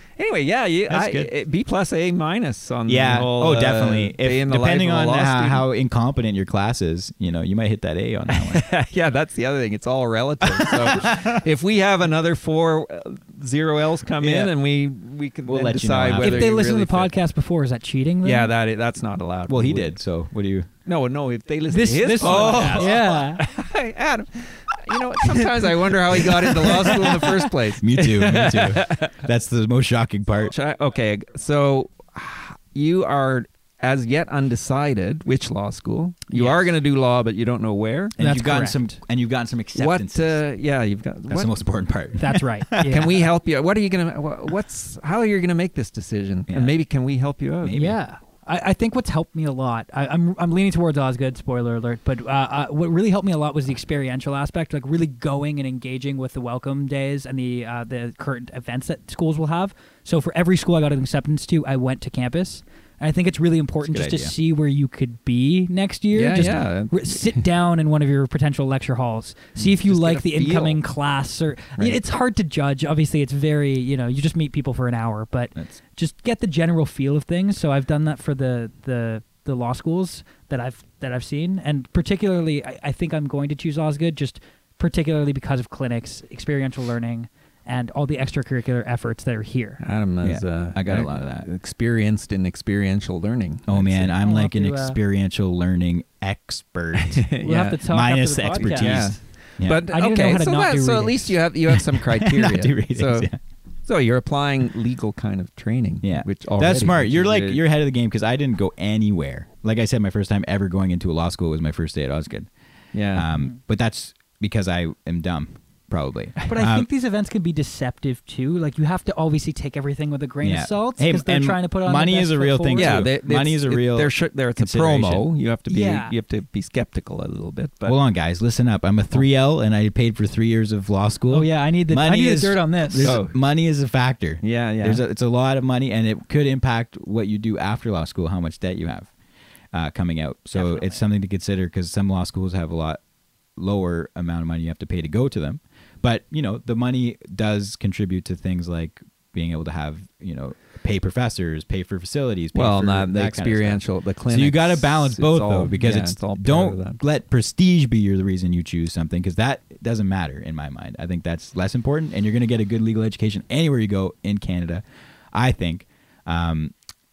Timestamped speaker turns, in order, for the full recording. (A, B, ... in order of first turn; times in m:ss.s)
0:00.2-0:05.6 A
0:00.9-0:01.3 B
0:02.9-0:08.6 B
0:08.3-0:17.1 A
0:10.4-0:11.4 B
0:14.2-0:14.5 B
0:15.4-0:16.5 B
0:16.2-0:18.5 C
0:18.2-0:19.9 A
0:19.5-0:20.7 B
0:20.9-0:29.2 A
0:21.7-0:23.4 C
0:22.2-0:23.1 B
0:26.7-0:30.5 B
0:30.4-0:38.2 A
0:38.2-0:40.4 B
0:38.2-0:38.9 C
0:39.8-0:41.5 A
0:41.3-0:43.2 B
0:42.2-0:43.1 C
0:42.9-0:47.9 A
0:46.5-0:46.7 B
0:47.6-0:47.9 B
0:47.7-1:29.8 C
1:03.8-1:04.3 B
1:06.1-1:07.4 A
1:09.6-1:10.8 A
1:29.8-1:34.1 A
1:30.2-1:31.5 B
1:33.7-1:39.9 B
1:34.2-1:35.0 C
1:36.9-1:37.8 A
1:37.4-1:39.1 C
1:38.6-1:43.3 A
1:39.9-1:41.4 C
1:41.9-1:43.4 B
1:43.9-1:47.6 A
1:46.0-1:52.5 B
1:52.9-1:53.3 A
1:53.1-1:56.9 B
1:56.5-2:03.0 C
2:00.4-2:05.3 B
2:02.8-2:08.0 A
2:05.7-2:06.1 C
2:07.8-2:19.1 B
2:11.3-2:13.1 C
2:13.0-2:13.4 A
2:14.4-2:15.0 A
2:19.7-2:23.0 B
2:20.6-2:20.9 C
2:23.6-2:46.7 B
2:32.5-2:37.0 A